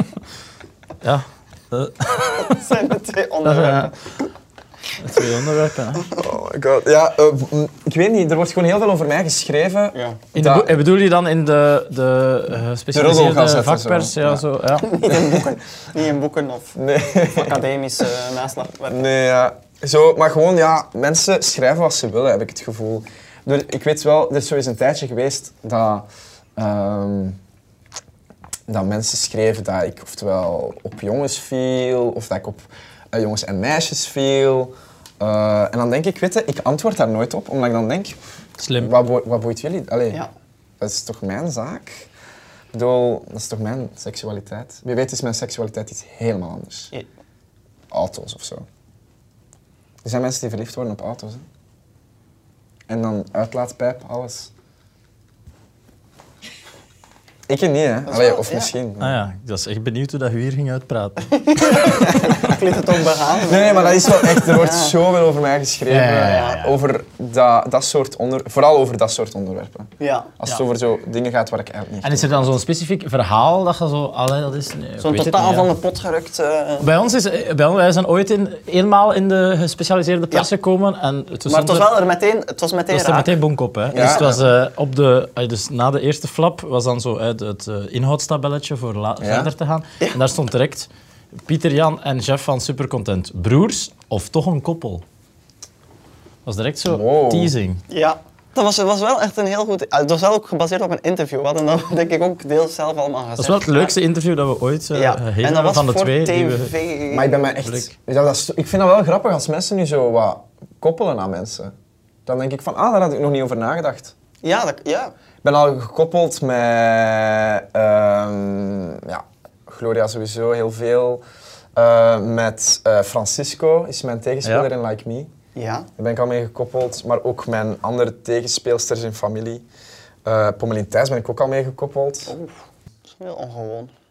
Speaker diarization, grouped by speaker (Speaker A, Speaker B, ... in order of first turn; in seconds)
Speaker A: 1.0-2.6, 3.4-3.9, 5.0-6.1, 10.3-15.0, 38.6-38.9, 59.0-61.3, 65.9-66.8, 72.0-75.7, 76.8-82.0, 82.9-90.9, 91.5-95.0, 96.4-97.8, 103.4-106.7, 107.6-107.9
Speaker B: 2.4-3.9, 9.9-10.2, 14.8-19.1, 58.1-58.7, 61.3-65.0, 66.2-66.6, 70.0-70.3, 75.0-76.9, 81.5-83.3, 83.9-84.3, 97.9-103.9, 104.9-107.5, 114.4-115.1, 125.5-125.9, 132.3-133.9
Speaker C: 6.1-10.8, 12.9-14.4, 16.8-17.6, 18.9-27.4, 28.7-38.2, 38.8-40.2, 40.8-42.0, 42.7-46.9, 47.9-48.6, 50.0-51.5, 52.9-54.5, 57.5-59.2, 63.5-72.4, 83.9-84.5, 89.2-89.5, 96.9-97.5, 107.1-111.7, 112.2-114.1, 115.4-121.2, 121.7-125.3, 126.0-129.6, 130.2-132.3